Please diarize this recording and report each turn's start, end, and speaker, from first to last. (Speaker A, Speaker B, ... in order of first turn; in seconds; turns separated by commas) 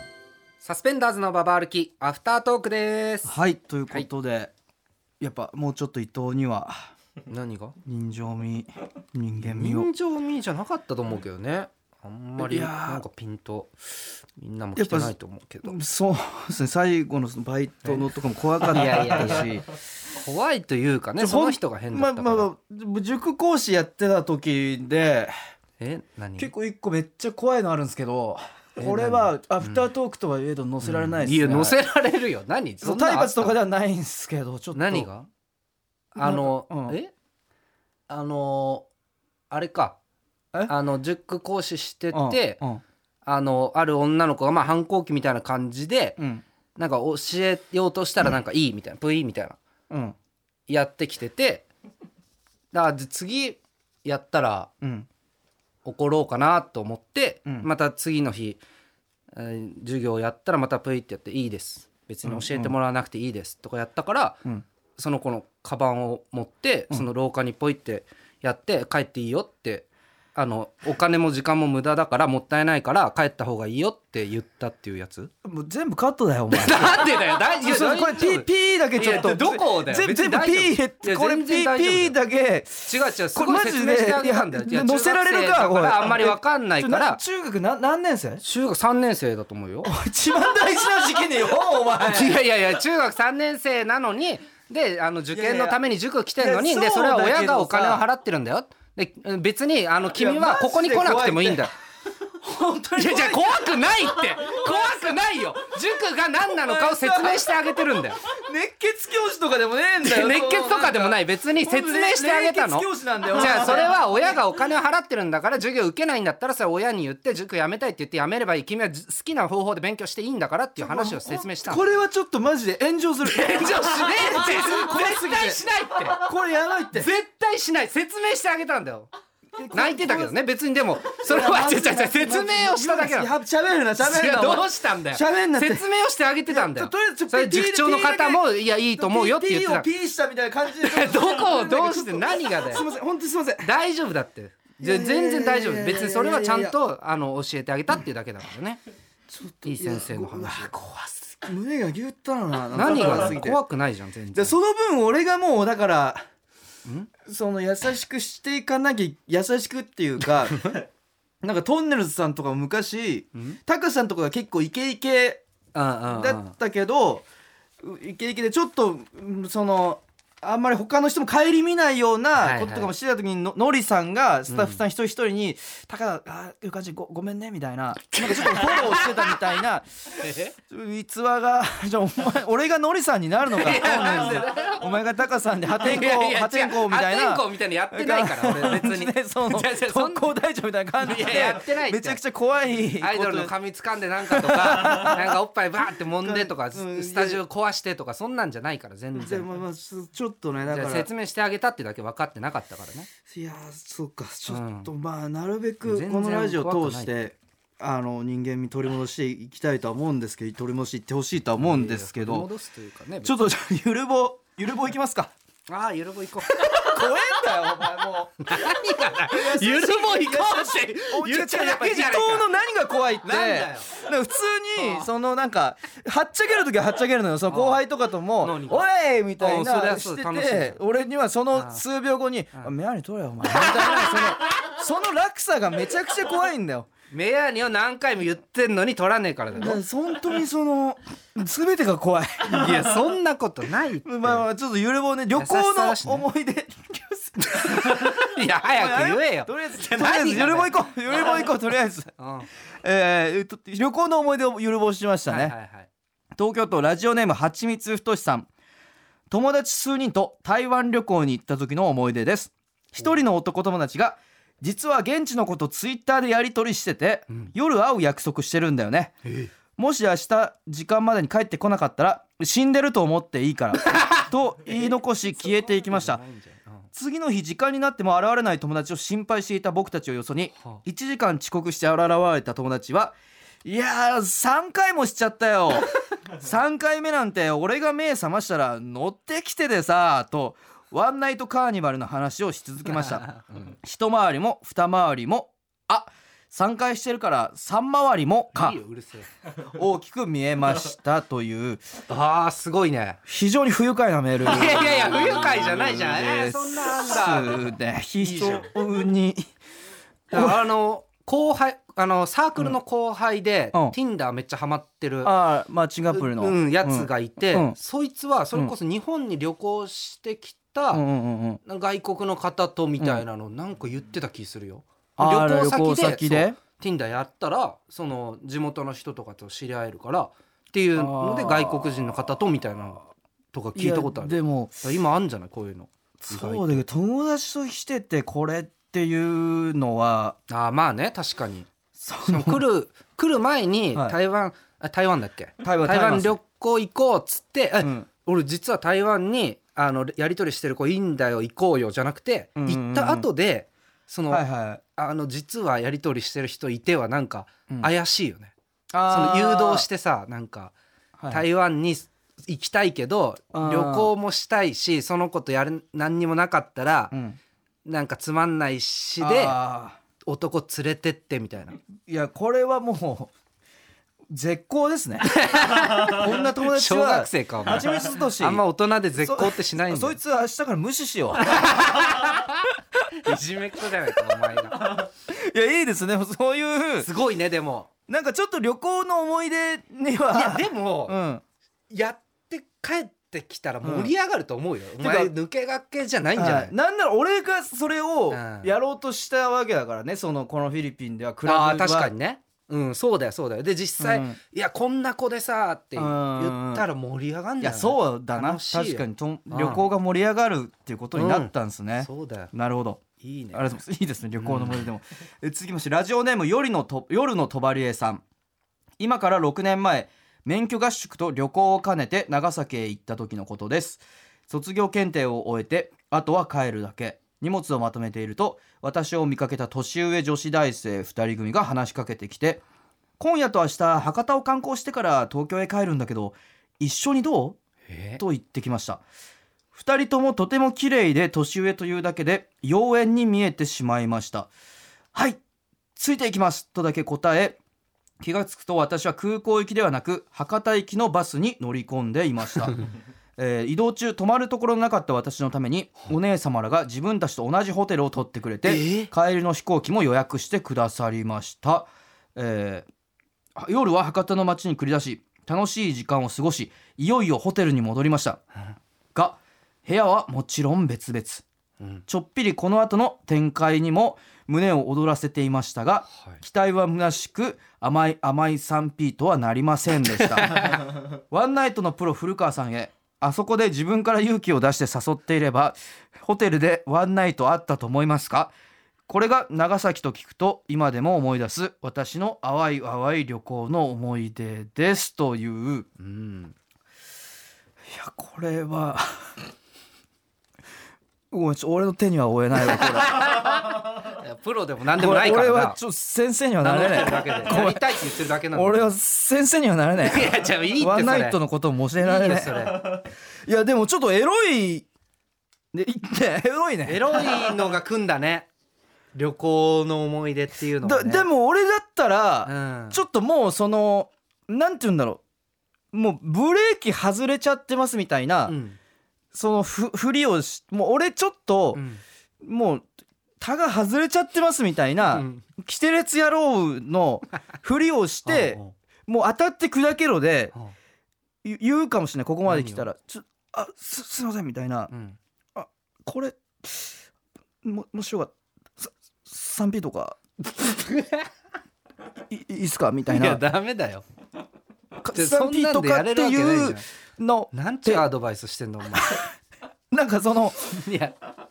Speaker A: 0.6-3.3, Speaker B: 3.2-4.5, Speaker B: 5.2-6.9, Speaker A: 7.3-7.8, Speaker B: 7.8-9.9, Speaker A: 9.4-13.7, Speaker B: 12.4-13.0, Speaker A: 14.4-15.8, Speaker B: 14.8-19.7, Speaker A: 18.6-19.5, Speaker A: 20.1-22.5, Speaker B: 21.2-25.3, Speaker A: 25.8-26.5, Speaker B: 26.4-31.8, Speaker A: 28.8-29.9, Speaker A: 30.8-33.6, Speaker B: 32.8-35.1, Speaker A: 34.7-35.3, Speaker A: 36.1-37.1, Speaker B: 36.2-37.0, Speaker A: 38.1-38.9, Speaker A: 39.5-40.0, Speaker A: 40.7-42.6, Speaker B: 42.1-42.8, Speaker A: 43.2-46.2, Speaker B: 46.2-46.4, Speaker A: 46.8-49.6, Speaker B: 49.9-50.2, Speaker A: 50.7-51.7, Speaker A: 52.7-54.7, Speaker B: 54.8-55.1, Speaker A: 55.9-58.6, Speaker A: 59.3-64.4, Speaker B: 62.2-62.7, Speaker A: 65.0-75.3, Speaker B: 75.5-88.4, Speaker A: 76.5-82.2, Speaker A: 82.9-87.2, Speaker A: 88.4-89.9, Speaker B: 89.8-92.4, Speaker A: 92.0-101.7, Speaker B: 95.3-95.8, Speaker B: 96.4-98.0, Speaker B: 100.1-101.7, Speaker B: 102.3-105.3, Speaker A: 103.0-108.2, Speaker B: 106.5-114.4, Speaker A: 110.0-121.9, Speaker B: 120.8-125.6, Speaker A: 123.2-126.3, Speaker B: 126.2-127.1, Speaker A: 126.9-129.1, Speaker B: 129.6-130.4, Speaker A: 129.7-133.3, Speaker B: 131.1-135.9, Speaker A: 134.0-139.9, Speaker B: 136.5-138.4, Speaker B: 138.9-143.7, Speaker A: 140.8-142.9, Speaker A: 143.6-148.8, Speaker B: 144.8-146.8, Speaker B: 149.3-150.8, Speaker A: 149.7-151.4, Speaker B: 151.4-153.6, Speaker A: 152.7-154.6, Speaker B: 154.3-156.2, Speaker B: 157.2-160.8, Speaker B: 161.4-165.4, Speaker A: 165.7-166.6, Speaker B: 166.1-167.3, Speaker B: 167.8-193.5, Speaker A: 172.4-172.9, Speaker A: 174.5-174.8, Speaker A: 178.1-179.3, Speaker A: 180.2-180.6, Speaker A: 183.5-184.9, Speaker A: 185.8-190.2, Speaker A: 191.0-192.2, Speaker A: 193.0-199.5, Speaker B: 194.2-195.4, Speaker B: 196.0-197.4, Speaker B: 199.2-201.1, Speaker A: 200.7-203.1, Speaker B: 203.3-212.5, Speaker A: 204.5-204.9, Speaker A: 205.8-207.1, Speaker A: 211.6-213.5, Speaker B: 213.2-215.3, Speaker A: 215.7-217.0, Speaker B: 216.6-236.9, Speaker A: 218.4-222.5, Speaker A: 223.2-223.9, Speaker A: 224.8-225.1, Speaker A: 227.5-227.8, Speaker A: 228.4-228.9, Speaker A: 229.4-230.8, Speaker A: 231.5-231.8, Speaker A: 233.5-234.2, Speaker A: 237.1-239.8, Speaker B: 239.6-243.0, Speaker A: 242.4-244.4, Speaker B: 244.1-252.2, Speaker A: 245.4-246.3, Speaker A: 247.4-251.4, Speaker A: 252.2-252.5, Speaker B: 252.8-255.6, Speaker A: 255.3-255.9, Speaker B: 256.4-258.5, Speaker B: 259.3-269.1, Speaker A: 269.2-269.5, Speaker B: 269.8-276.2, Speaker A: 273.8-276.9, Speaker B: 276.9-298.8, Speaker A: 293.1-293.8, Speaker A: 298.6-299.3, Speaker B: 299.6-301.8, Speaker A: 302.1-303.2, Speaker B: 303.3-309.5, Speaker A: 304.4-307.7, Speaker A: 308.2-308.7, Speaker A: 310.3-315.3, Speaker B: 310.3-310.6, Speaker B: 315.2-317.8, Speaker A: 316.1-321.0, Speaker B: 320.9-321.6, Speaker A: 321.6-336.9, Speaker B: 323.0-323.2, Speaker B: 325.2-326.6, Speaker B: 331.0-332.1, Speaker B: 333.8-334.8, Speaker B: 336.2-340.4, Speaker A: 340.5-341.7, Speaker B: 342.0-342.6, Speaker A: 342.2-354.4, Speaker B: 345.6-346.4, Speaker B: 347.8-348.1, Speaker B: 352.6-353.3, Speaker B: 354.3-354.8, Speaker A: 354.9-358.5, Speaker B: 358.9-359.9, Speaker A: 359.1-360.8, Speaker B: 361.2-361.4, Speaker A: 361.3-367.1, Speaker B: 363.5-364.1, Speaker B: 367.1-367.4, Speaker A: 367.9-369.6, Speaker B: 369.2-370.0, Speaker A: 370.3-371.8, Speaker B: 372.1-373.3, Speaker B: 374.3-378.6, Speaker A: 375.2-380.2, Speaker B: 379.2-381.8, Speaker A: 381.4-385.1, Speaker B: 384.2-387.1, Speaker A: 387.0-387.9, Speaker B: 388.1-391.4, Speaker A: 390.3-391.2, Speaker A: 391.9-396.7, Speaker B: 393.8-394.1, Speaker B: 395.0-395.3, Speaker B: 396.4-402.1, Speaker A: 398.3-398.7, Speaker A: 401.4-409.9, Speaker B: 404.0-404.4, Speaker B: 406.0-406.9, Speaker B: 407.6-418.2, Speaker A: 411.2-412.5, Speaker A: 413.2-413.7, Speaker A: 414.4-414.9, Speaker B: 419.0-432.6, Speaker B: 433.2-437.6, Speaker A: 437.9-438.2, Speaker B: 438.2-439.0, Speaker B: 439.7-444.5, Speaker B: 445.1-445.4, Speaker B: 446.0-447.6, Speaker B: 448.2-452.8, Speaker B: 453.4-462.9, Speaker A: 458.6-459.1, Speaker B: 463.6-468.4, Speaker B: 469.1-471.4, Speaker B: 472.1-488.5, Speaker A: 480.2-480.9, Speaker B: 489.1-495.9, Speaker A: 496.0-496.6, Speaker B: 497.9-499.1, Speaker B: 501.3-503.4, Speaker A: 502.9-505.8, Speaker B: 504.9-514.9, Speaker A: 506.6-508.9, Speaker A: 510.0-511.4, Speaker A: 512.0-513.0, Speaker B: 515.7-517.5, Speaker A: 516.9-518.5, Speaker A: 519.1-521.3, Speaker B: 520.8-525.2, Speaker A: 522.5-523.0, Speaker B: 525.9-528.6, Speaker A: 528.5-528.8, Speaker B: 529.3-531.8, Speaker A: 531.7-532.0, Speaker B: 532.4-532.9, Speaker B: 533.4-540.5, Speaker A: 535.1-535.4, Speaker A: 538.2-538.7, Speaker B: 541.4-544.9, Speaker A: 542.5-542.9, Speaker A: 544.9-545.2, Speaker B: 545.6-547.0, Speaker B: 547.6-550.2, Speaker A: 550.5-551.3, Speaker B: 552.3-553.4, Speaker A: 553.1-554.0, Speaker B: 555.0-558.1, Speaker A: 555.1-556.8, Speaker A: 557.5-559.2, Speaker B: 558.9-559.3, Speaker B: 559.9-560.9, Speaker A: 560.7-561.2